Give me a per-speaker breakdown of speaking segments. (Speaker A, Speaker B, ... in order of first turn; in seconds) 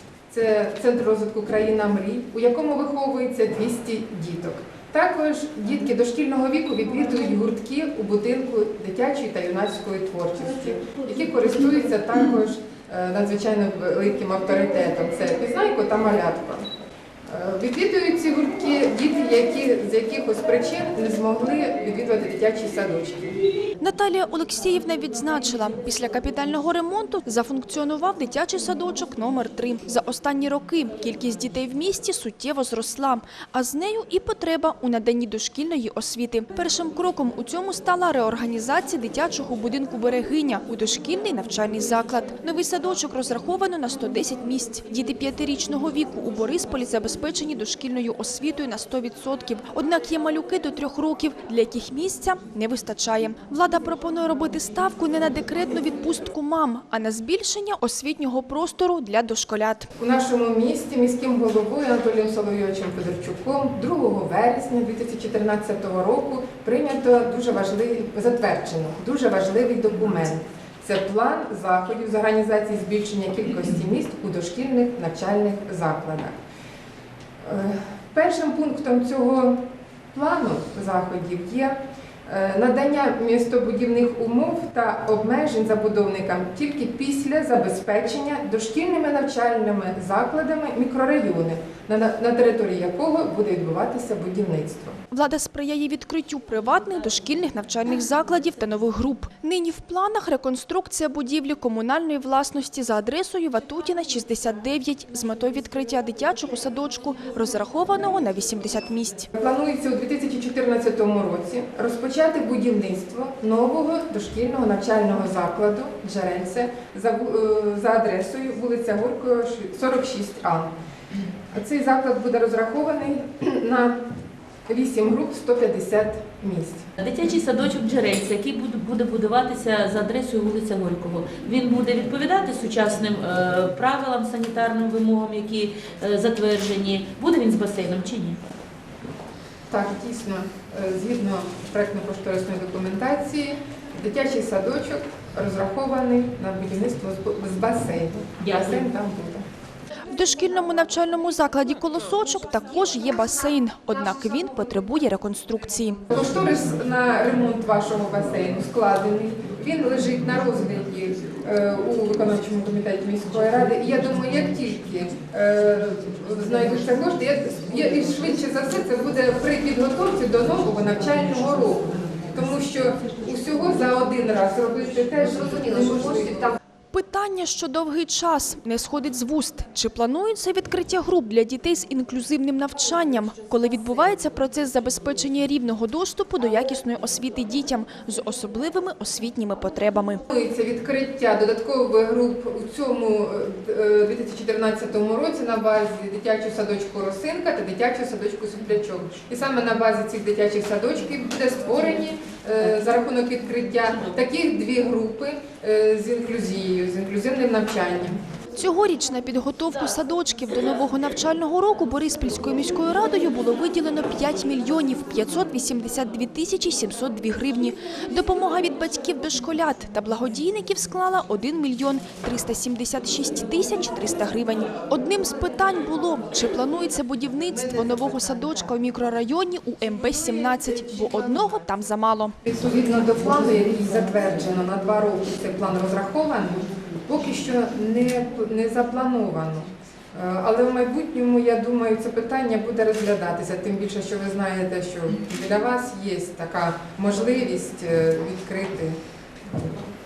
Speaker A: 0.3-16.6, 17.3-23.2, 60.0-76.3, 77.4-95.0, 109.3-120.7, 121.5-124.0, 124.7-126.9, 139.7-149.4, 156.1-176.6, 190.3-208.2, 232.4-249.0
Speaker B: 23.8-59.9, 95.1-109.3, 150.1-156.0, 176.9-190.2, 208.6-232.3
Speaker C: 127.0-138.4, 148.4-148.8